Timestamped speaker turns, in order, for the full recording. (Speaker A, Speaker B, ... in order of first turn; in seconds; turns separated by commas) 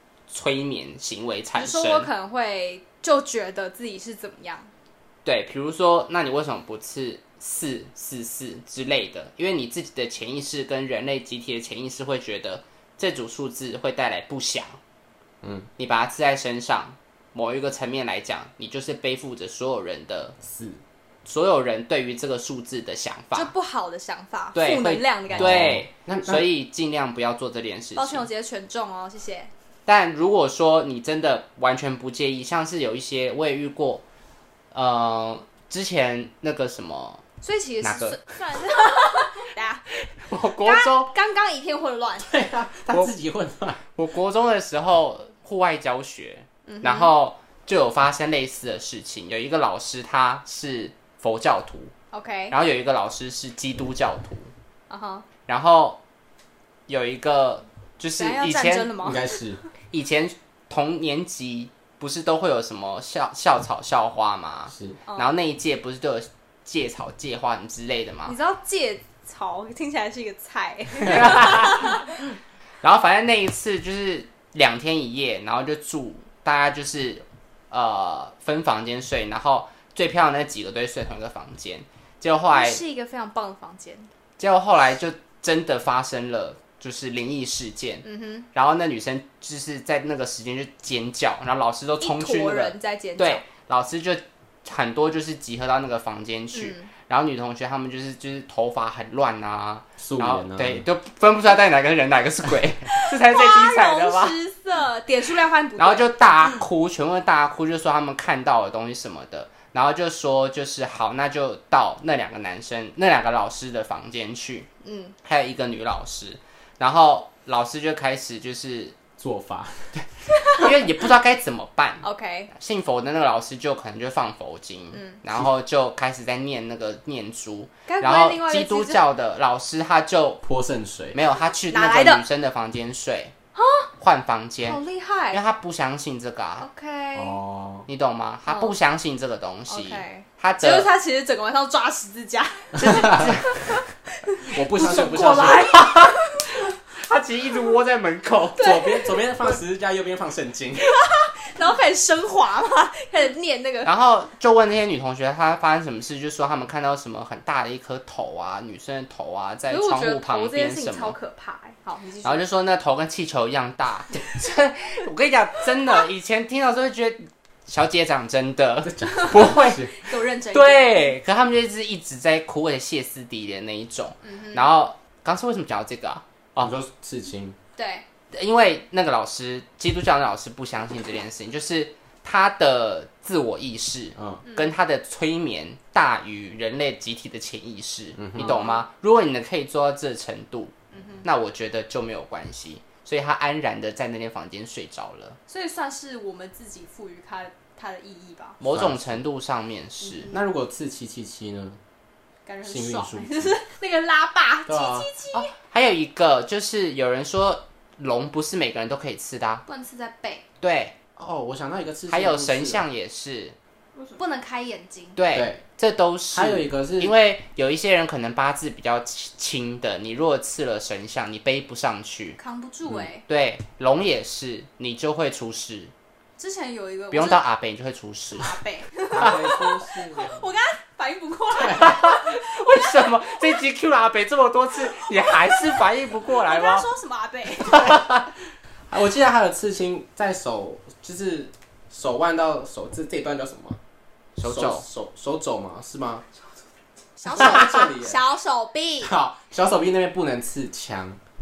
Speaker A: 0.3-2.1, Speaker B: 1.6-4.7, Speaker A: 5.2-14.8, Speaker C: 15.4-15.7, Speaker A: 15.8-20.4, Speaker C: 20.4-20.8, Speaker A: 21.2-23.5, Speaker B: 23.3-25.7, Speaker A: 24.6-28.3, Speaker C: 25.3-26.5, Speaker B: 28.0-29.5, Speaker A: 29.9-34.0, Speaker A: 34.7-37.2, Speaker B: 37.4-39.9, Speaker A: 37.8-38.4, Speaker A: 40.2-41.1, Speaker B: 40.6-42.3, Speaker C: 42.2-43.8, Speaker A: 44.0-51.9, Speaker B: 46.7-47.1, Speaker B: 52.1-52.6, Speaker A: 52.5-54.5, Speaker B: 54.9-55.3, Speaker A: 55.5-56.0, Speaker A: 56.9-59.0, Speaker B: 58.2-59.7, Speaker C: 59.0-59.6, Speaker A: 59.9-68.4, Speaker C: 64.7-65.0, Speaker B: 65.1-65.4, Speaker B: 68.3-72.1, Speaker A: 71.0-72.1, Speaker A: 72.8-82.8, Speaker B: 82.5-84.1, Speaker A: 84.4-104.4, Speaker B: 88.0-88.5, Speaker B: 92.0-93.5, Speaker B: 96.5-96.9, Speaker C: 100.0-100.8, Speaker B: 102.9-106.6, Speaker A: 105.8-114.7, Speaker B: 114.8-115.2, Speaker A: 115.2-119.0, Speaker C: 119.2-120.0, Speaker B: 120.3-120.7, Speaker A: 120.5-130.4, Speaker B: 122.0-122.5, Speaker B: 124.9-125.2, Speaker B: 127.9-129.0, Speaker C: 130.4-131.2, Speaker A: 131.1-133.3, Speaker B: 131.7-132.2, Speaker B: 133.6-133.9, Speaker A: 134.0-134.8, Speaker B: 134.6-135.4, Speaker A: 135.3-136.7, Speaker B: 136.6-137.4, Speaker C: 137.2-137.9, Speaker A: 137.9-140.9, Speaker B: 138.5-138.7, Speaker B: 139.7-146.6, Speaker A: 142.8-143.8, Speaker C: 142.8-143.4, Speaker C: 144.5-145.7, Speaker A: 145.0-148.7, Speaker B: 148.6-149.5, Speaker C: 148.6-150.9, Speaker B: 150.8-153.9, Speaker A: 153.8-161.2, Speaker B: 159.7-162.4, Speaker A: 162.2-169.9, Speaker C: 168.8-169.9, Speaker B: 169.1-171.1, Speaker A: 170.5-176.8, Speaker B: 174.2-174.8, Speaker C: 176.6-177.6, Speaker B: 177.8-178.1, Speaker A: 178.3-195.4, Speaker C: 184.2-184.4, Speaker B: 184.4-184.7, Speaker C: 188.2-188.6, Speaker B: 188.4-188.8, Speaker B: 190.9-191.2, Speaker B: 195.5-198.6, Speaker A: 198.6-200.3, Speaker C: 198.7-199.2, Speaker B: 200.0-200.4, Speaker C: 200.3-201.8, Speaker B: 202.5-205.5, Speaker C: 202.7-203.6, Speaker C: 204.7-205.1, Speaker A: 205.3-209.6, Speaker B: 209.7-210.4, Speaker A: 210.6-211.0, Speaker C: 211.2-212.8, Speaker A: 212.1-213.6, Speaker B: 214.0-215.2, Speaker A: 215.2-222.4, Speaker C: 215.3-215.6, Speaker C: 216.3-217.1, Speaker B: 222.4-223.2, Speaker A: 223.3-225.9, Speaker B: 226.4-227.4, Speaker A: 227.1-228.5, Speaker B: 228.4-233.6, Speaker C: 229.1-230.5, Speaker A: 231.6-236.9, Speaker B: 234.9-238.0, Speaker A: 237.7-238.1, Speaker C: 238.9-243.8, Speaker A: 244.4-244.8, Speaker C: 244.4-246.2, Speaker B: 247.2-249.1, Speaker C: 247.2-248.2, Speaker C: 249.0-251.2